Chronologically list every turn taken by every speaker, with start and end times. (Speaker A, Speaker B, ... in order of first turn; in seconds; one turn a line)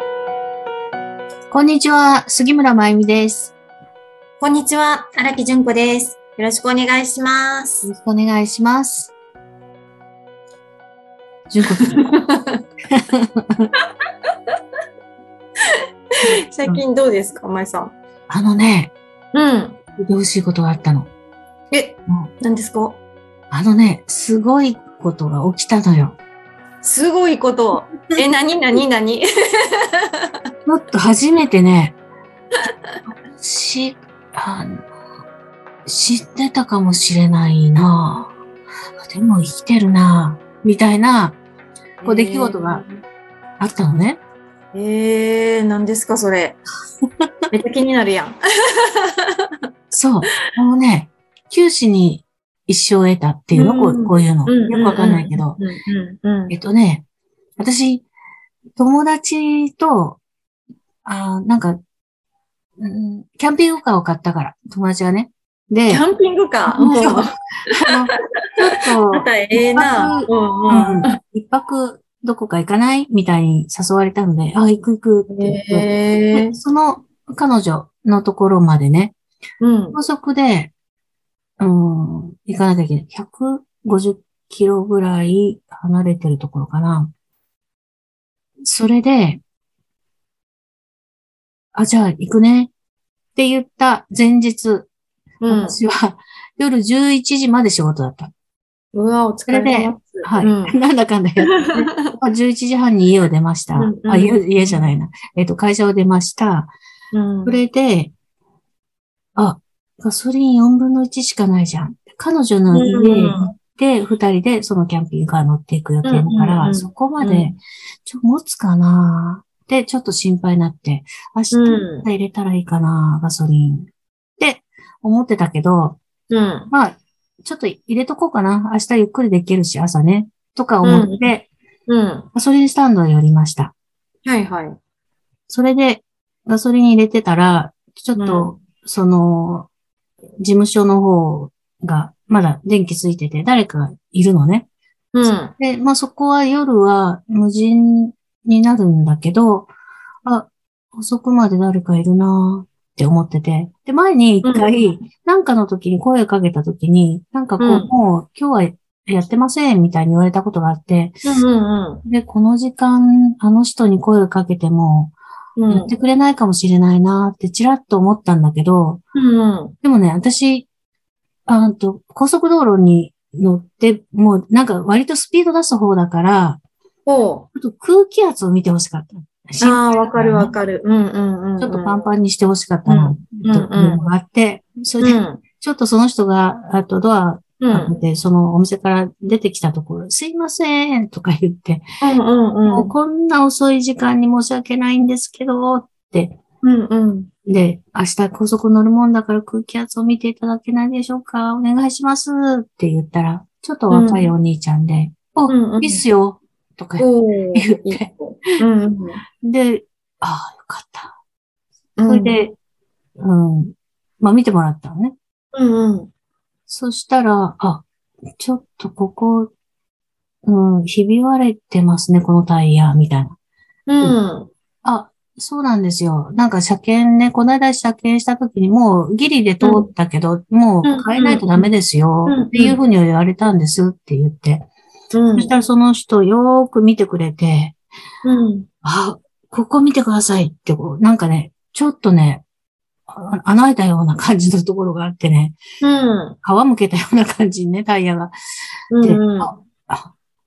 Speaker A: 1.5-3.5
Speaker B: 4.4-7.9
Speaker A: 7.8-9.1
Speaker A: 11.5-12.1
Speaker B: 11.7-12.6
Speaker A: 12.9-13.7
Speaker A: 16.2-16.8
Speaker B: 16.5-17.9
Speaker A: 18.3-18.9
Speaker B: 19.3-19.8
Speaker A: 20.0-21.1
Speaker B: 21.7-23.0
Speaker A: 23.5-26.2
Speaker B: 26.8-29.2
Speaker A: 30.7-32.0
Speaker A: 33.4-34.8
Speaker A: 35.9-38.3
Speaker A: 39.0-41.4
Speaker B: 42.0-43.0
Speaker A: 42.0-42.8
Speaker A: 43.6-44.2
Speaker B: 44.7-46.6
Speaker B: 47.5-48.4
Speaker A: 49.9-55.6
Speaker B: 53.5-56.5
Speaker A: 56.5-57.0
Speaker A: 57.6-58.1
Speaker A: 58.8-60.2
Speaker A: 61.0-61.8
Speaker A: 62.8-66.0
Speaker B: 65.9-67.9
Speaker A: 66.7-67.3
Speaker A: 67.9-79.1
Speaker B: 69.1-71.2
Speaker B: 75.3-76.6
Speaker B: 79.6-80.0
Speaker A: 80.0-80.7
Speaker A: 81.6-87.1
Speaker A: 88.7-89.4
Speaker A: 91.8-92.7
Speaker A: 93.4-94.9
Speaker B: 95.4-95.8
Speaker A: 95.5-98.3
Speaker B: 98.9-100.8
Speaker A: 99.5-106.7
Speaker B: 101.5-102.1
Speaker B: 103.8-104.8
Speaker B: 107.1-107.6
Speaker A: 107.5-108.1
Speaker A: 109.4-126.0
Speaker B: 112.7-113.5
Speaker B: 116.0-117.6
Speaker B: 121.5-122.1
Speaker B: 126.3-126.7
Speaker A: 126.7-131.5
Speaker B: 130.8-131.3
Speaker B: 131.9-132.3
Speaker A: 132.3-133.7
Speaker B: 134.2-134.8
Speaker A: 135.5-139.7
Speaker B: 138.2-138.6
Speaker A: 140.4-144.7
Speaker B: 145.1-145.5
Speaker A: 145.2-149.7
Speaker A: 150.2-161.2
Speaker B: 154.4-154.9
Speaker B: 157.6-157.9
Speaker B: 161.2-162.0
Speaker A: 162.1-165.2
Speaker B: 165.6-165.9
Speaker A: 165.7-169.0
Speaker B: 169.2-169.7
Speaker A: 169.8-170.7
Speaker A: 171.5-176.6
Speaker B: 177.1-177.5
Speaker A: 177.6-180.5
Speaker B: 179.6-182.0
Speaker A: 181.6-191.8
Speaker B: 182.9-184.0
Speaker B: 185.0-185.4
Speaker B: 187.6-188.0
Speaker B: 192.0-192.9
Speaker A: 192.7-196.4
Speaker B: 196.6-197.3
Speaker A: 197.5-208.1
Speaker B: 203.9-204.3
Speaker B: 205.5-206.1
Speaker B: 207.0-209.2
Speaker A: 209.4-211.2
Speaker B: 212.0-212.4
Speaker A: 212.0-212.6
Speaker A: 213.2-215.2
Speaker B: 215.5-216.1
Speaker A: 216.7-217.8
Speaker A: 218.4-219.5
Speaker A: 220.5-223.4
Speaker B: 223.9-224.5
Speaker A: 224.8-234.7
Speaker B: 229.6-229.9
Speaker B: 230.8-231.7
Speaker B: 232.2-232.8
Speaker B: 235.1-235.5
Speaker A: 235.4-237.8
Speaker B: 238.2-238.7
Speaker A: 238.8-242.4
Speaker A: 243.1-245.6
Speaker B: 245.8-246.4
Speaker A: 246.4-248.3
Speaker B: 248.9-249.6
Speaker A: 249.0-250.1